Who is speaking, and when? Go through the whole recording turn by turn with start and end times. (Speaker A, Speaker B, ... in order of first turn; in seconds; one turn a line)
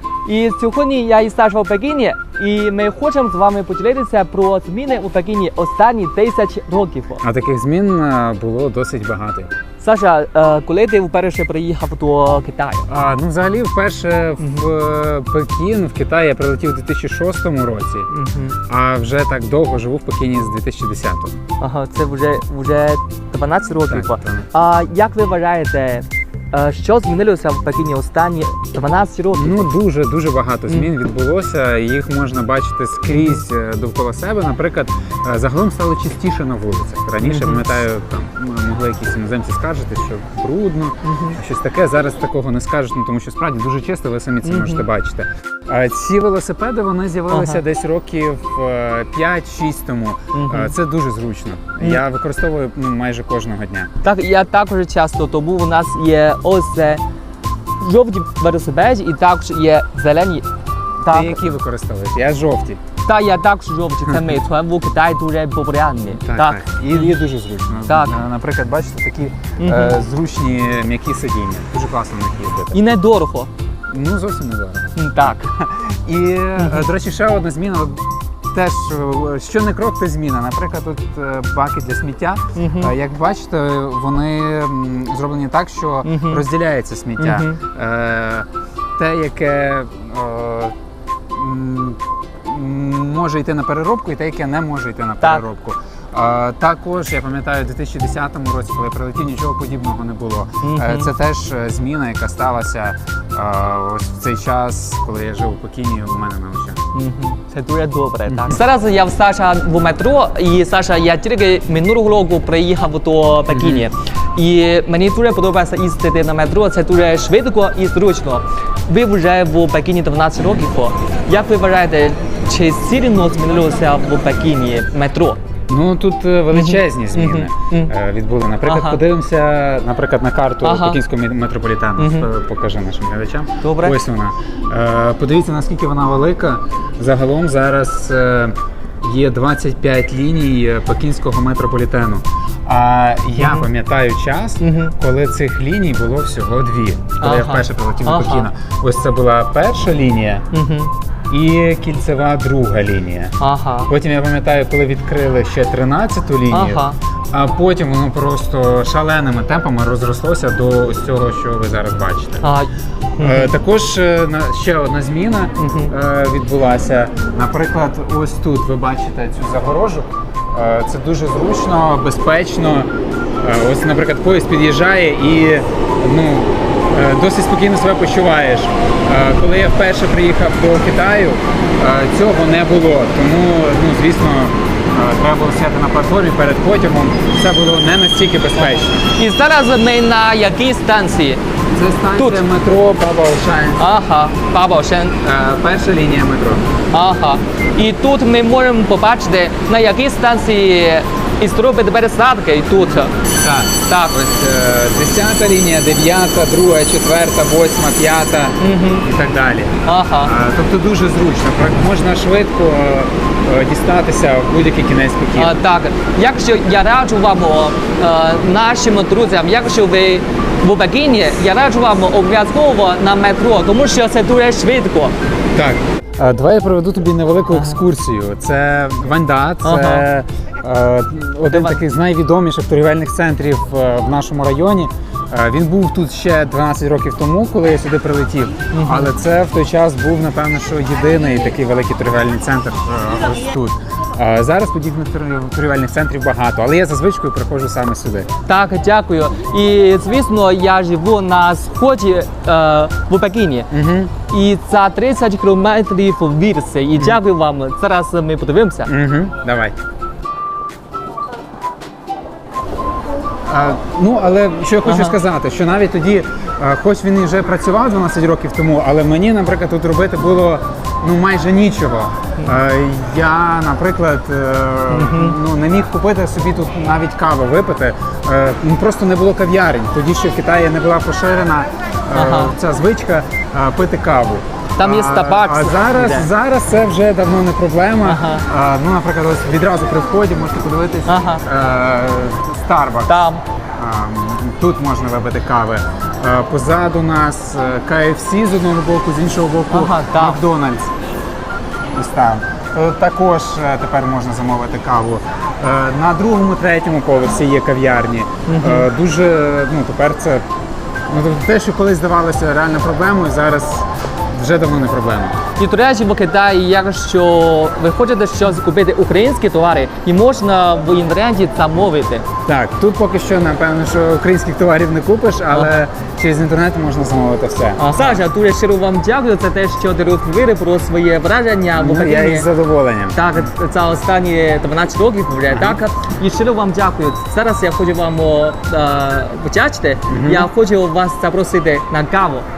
Speaker A: 0.3-7.2
Speaker B: 7.2-9.5
Speaker A: 9.8-12.9
Speaker B: 12.9-18.1
Speaker A: 18.1-18.6
Speaker B: 18.7-21.4
Speaker A: 21.6-29.7
Speaker B: 23.9-24.5
Speaker B: 29.3-53.9
Speaker A: 33.1-33.4
Speaker A: 37.2-37.6
Speaker A: 41.0-41.4
Speaker A: 44.4-44.9
Speaker A: 47.3-47.6
Speaker A: 50.3-50.7
Speaker A: 54.0-57.0
Speaker A: 57.8-60.5
Speaker A: 61.0-61.4
Speaker B: 61.0-62.8
Speaker A: 63.0-67.1
Speaker B: 66.2-72.8
Speaker A: 67.9-68.2
Speaker A: 69.6-70.0
Speaker A: 72.7-73.5
Speaker B: 73.9-90.8
Speaker A: 75.0-75.5
Speaker A: 82.5-82.9
Speaker A: 86.0-86.4
Speaker A: 87.2-87.6
Speaker B: 91.3-106.8
Speaker A: 100.6-101.1
Speaker A: 106.9-125.4
Speaker B: 108.3-108.6
Speaker B: 113.5-113.9
Speaker B: 125.7-150.5
Speaker A: 126.5-127.9
Speaker A: 128.7-129.0
Speaker A: 130.6-131.0
Speaker A: 132.0-132.3
Speaker A: 133.6-134.0
Speaker A: 143.4-143.7
Speaker A: 144.6-144.9
Speaker A: 147.2-148.5
Speaker A: 150.5-150.9
Speaker B: 151.3-153.4
Speaker A: 153.4-153.9
Speaker B: 153.9-162.5
Speaker A: 156.5-157.0
Speaker A: 162.4-163.5
Speaker B: 163.2-172.9
Speaker A: 165.6-165.9
Speaker B: 173.4-189.1
Speaker A: 188.6-191.4
Speaker B: 191.7-193.8
Speaker A: 192.2-192.4
Speaker A: 193.8-195.2
Speaker B: 195.2-196.7
Speaker A: 196.9-203.1
Speaker B: 202.8-215.6
Speaker A: 203.9-204.2
Speaker A: 208.6-209.1
Speaker A: 209.8-210.3
Speaker A: 215.4-225.1
Speaker B: 225.5-248.3
Speaker A: 227.5-227.8
Speaker A: 229.6-230.1
Speaker A: 231.5-231.8
Speaker A: 238.7-239.1
Speaker A: 248.5-253.7
Speaker B: 253.7-254.1
Speaker A: 254.3-258.9
Speaker B: 258.9-259.7
Speaker B: 263.5-300.9
Speaker A: 264.9-265.2
Speaker A: 274.9-275.4
Speaker A: 282.1-282.6
Speaker A: 284.8-286.3
Speaker A: 288.1-288.5
Speaker A: 291.1-291.4
Speaker A: 293.1-293.4
Speaker A: 299.7-300.4
Speaker B: 301.9-310.4
Speaker A: 308.5-308.9
Speaker B: 311.1-315.4
Speaker A: 315.6-322.3
Speaker B: 322.5-328.0
Speaker A: 325.5-325.8
Speaker A: 327.8-332.5
Speaker B: 331.8-333.3
Speaker A: 333.1-342.4
Speaker B: 335.5-335.8
Speaker B: 340.1-340.5